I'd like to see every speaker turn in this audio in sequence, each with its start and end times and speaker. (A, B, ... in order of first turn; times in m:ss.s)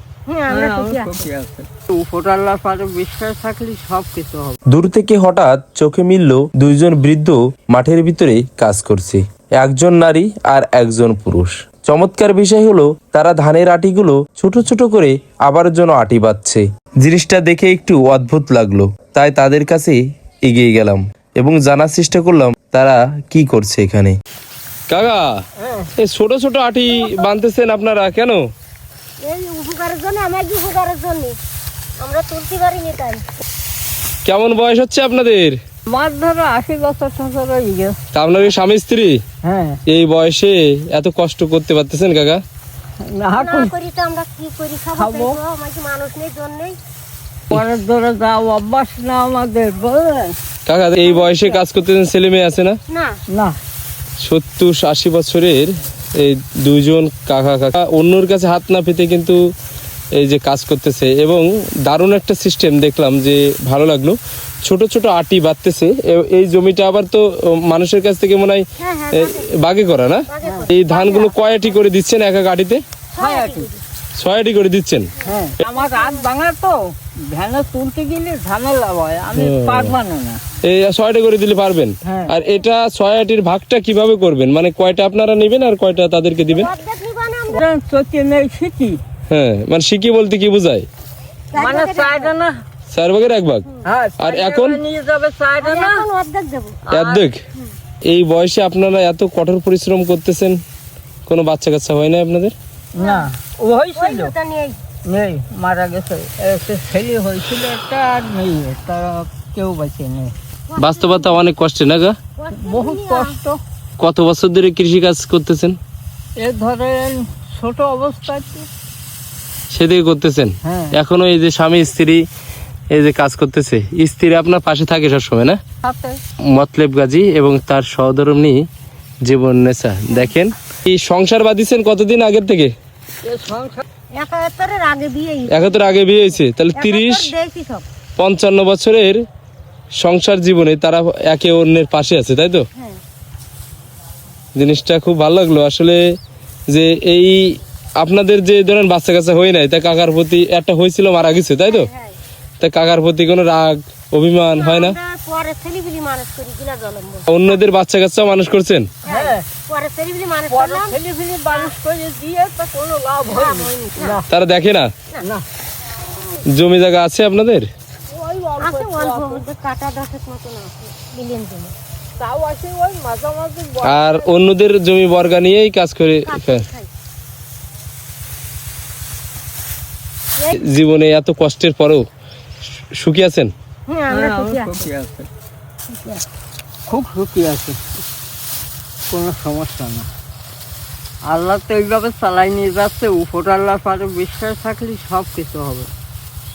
0:00.3-0:01.1 A
0:00.5-0:04.6 B
0:04.7-0:24.2 C
0:24.9-0:25.3 C
0:25.6-0:25.9 B
0:26.0-0:28.4 C
0:29.2-0:31.4 A
0:32.0-0:33.2 A
0:34.2-0:35.6 C
0:35.9-0:38.0 B
0:38.1-0:39.2 C
0:39.4-0:39.8 B
0:39.9-0:42.4 C
0:43.0-0:43.7 B
0:43.3-0:46.8 A
0:45.0-0:45.4 B
0:47.5-0:50.4 B
0:50.7-0:52.8 C
0:51.0-0:51.6 A
0:52.9-0:53.2 A
0:53.3-0:53.6 B
0:54.2-0:59.4 C
1:00.2-1:12.8 C
1:08.8-1:09.5 A
1:10.3-1:11.4 A
1:13.1-1:13.8 A
1:13.2-1:13.7 B
1:14.2-1:15.1 C
1:15.2-1:16.3 A
1:15.2-1:20.4 B
1:19.3-1:19.9 C
1:20.6-1:26.7 C
1:22.0-1:22.3 B
1:26.5-1:27.6 A
1:27.5-1:29.0 B
1:29.3-1:30.9 C
1:31.5-1:32.3 A
1:31.6-1:32.5 B
1:32.9-1:33.6 C
1:33.8-1:36.0 B
1:34.2-1:34.8 C
1:35.6-1:36.8 A
1:36.9-1:37.3 B
1:36.9-1:37.4 C
1:38.1-1:40.6 C
1:41.3-1:42.5 C
1:43.0-1:43.3 A
1:43.0-1:44.3 B
1:44.0-1:44.8 A
1:45.1-1:50.3 B
1:50.7-1:51.4 A
1:50.8-1:52.2 C
1:52.4-1:53.4 A
1:52.5-1:53.6 B
1:54.0-1:55.8 C
1:56.4-1:58.7 B
1:59.7-2:02.2 C
2:00.6-2:01.0 B
2:02.9-2:05.6 C
2:05.8-2:06.2 B
2:06.5-2:08.6 C
2:09.2-2:12.7 C
2:13.2-2:13.8 B
2:14.1-2:17.8 A
2:15.5-2:17.3 C
2:18.2-2:19.2 C
2:20.0-2:22.6 C
2:22.7-2:23.0 A
2:24.6-2:26.0 C
2:26.7-2:31.9 C
2:31.7-2:32.2 A
2:32.6-2:35.0 C
2:34.5-2:37.7 A
2:37.3-2:38.9 C
2:39.0-2:41.0 A
2:39.1-2:39.4 B
2:40.5-2:44.3 B
2:41.5-2:41.8 A
2:43.3-2:44.2 A
2:44.3-2:44.9 C
2:46.5-2:47.7 C
2:48.1-2:49.4 B
2:48.6-2:51.8 A
2:52.2-2:54.2 B
2:53.8-2:56.6 C
2:56.3-2:56.9 A
3:00.6-3:02.0 C
3:03.0-3:03.5 C
3:03.9-3:04.7 A
3:04.1-3:05.3 B
3:05.9-3:06.2 A
3:06.9-3:07.8 B
3:09.1-3:10.1 B
3:11.3-3:15.9 B